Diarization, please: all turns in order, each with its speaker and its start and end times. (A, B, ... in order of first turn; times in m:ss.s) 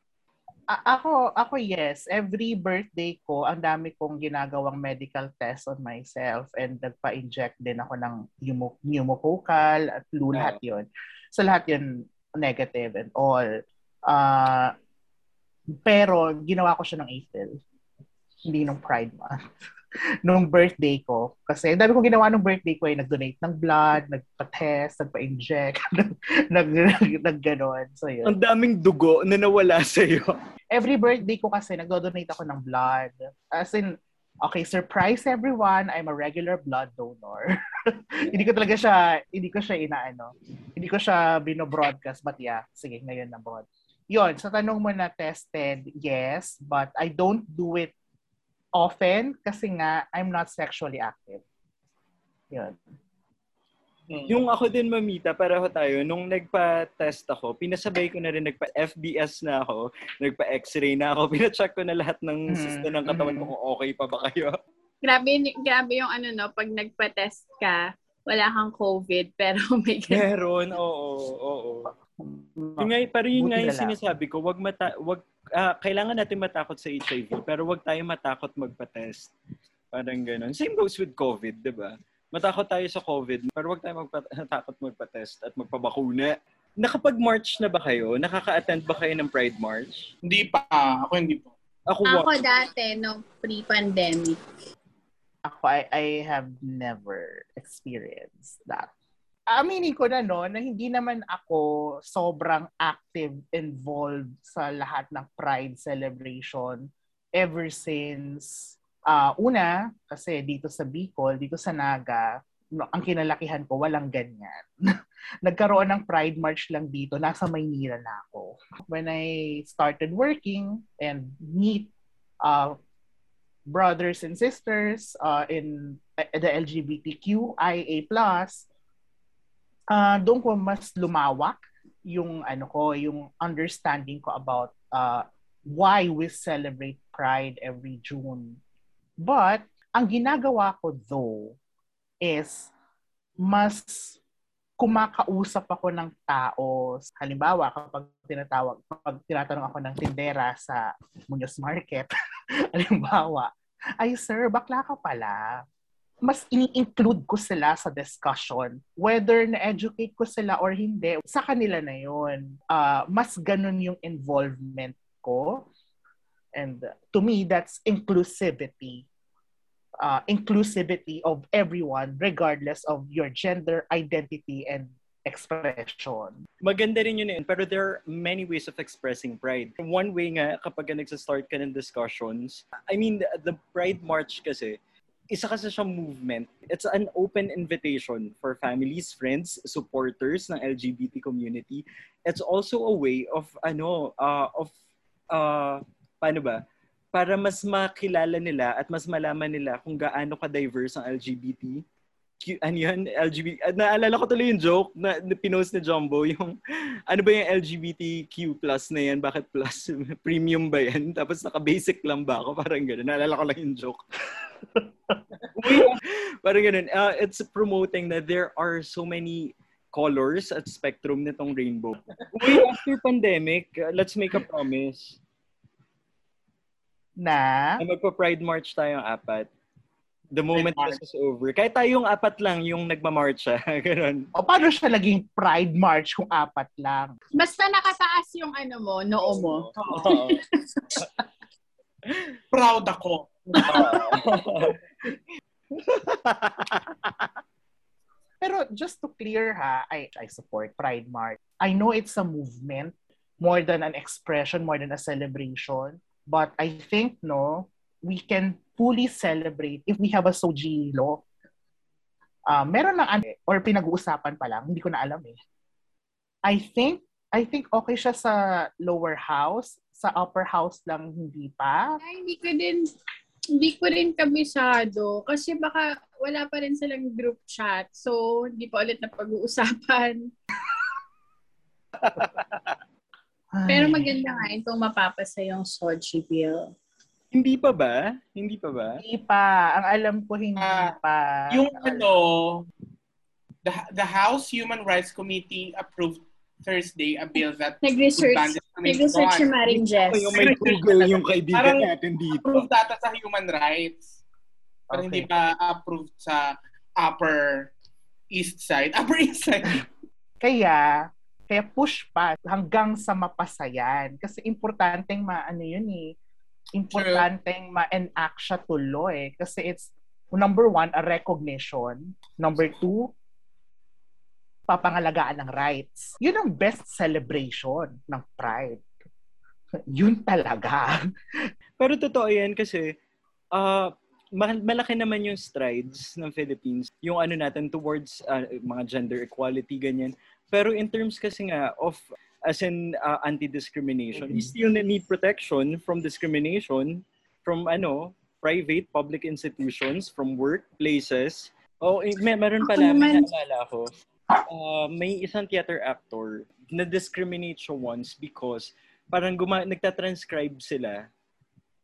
0:00.7-0:13.5 A
0:14.1-0:14.7 A
0:15.8-0:17.6 A
0:18.5-0:19.4 A
0:20.2-0:28.3 A
0:28.2-0:30.4 B
0:30.7-0:47.9 A
0:48.8-0:51.4 A
0:52.5-0:52.8 A
0:54.1-0:54.4 C
0:54.3-1:04.6 B
1:02.5-1:03.5 A
1:05.0-1:10.2 D
1:10.1-1:11.9 B
1:12.2-1:13.9 A
1:12.8-1:19.3 B
1:19.9-1:30.1 B
1:30.3-1:31.5 C
1:31.9-1:32.6 B
1:32.0-1:34.4 D
1:35.4-1:38.9 A
1:39.5-1:54.7 A
1:55.4-2:01.9 A
2:02.4-2:02.8 A
2:03.7-2:08.7 A
2:09.9-2:18.6 A
2:19.2-2:21.6 A
2:22.2-2:22.7 A
2:23.4-2:24.2 A
2:24.8-2:32.1 A
2:32.7-2:35.6 A
2:36.2-2:45.7 A
2:46.6-2:49.0 A
2:50.0-2:56.4 A
2:56.6-3:04.8 B
3:05.3-3:14.7 B
3:15.3-3:16.6 B
3:17.1-3:21.8 B
3:22.4-3:26.6 B
3:27.1-3:34.0 B
3:35.6-3:45.2 B
3:47.2-3:47.8 A
3:47.8-3:49.5 B
3:50.3-3:54.3 B
3:50.5-3:51.0 C
3:54.4-3:57.2 A
3:57.4-4:01.0 D
3:59.7-4:00.4 B
4:02.5-4:04.4 C
4:03.7-4:04.8 B
4:05.7-4:07.3 B
4:08.4-4:21.2 A
4:22.5-4:25.4 A
4:26.4-4:32.0 A
4:32.0-4:32.9 D
4:33.6-4:40.2 D
4:42.0-4:42.7 B
4:43.6-4:44.1 A
4:43.7-4:46.7 D
4:47.3-4:49.0 B
4:49.0-4:52.1 A
4:50.6-4:50.9 C
4:51.5-4:52.7 C
4:53.6-4:59.5 C
4:57.8-5:00.3 D
4:59.7-5:02.7 B
5:00.3-5:04.1 C
5:04.9-5:05.3 A
5:04.9-5:07.7 C
5:08.3-5:09.8 C
5:10.4-5:16.2 A
5:16.7-5:23.1 A
5:16.9-5:17.2 C
5:24.7-5:28.8 A
5:29.9-5:31.0 A
5:31.8-5:32.9 B
5:33.5-5:53.9 B
5:52.6-5:53.2 D
5:54.5-6:01.1 B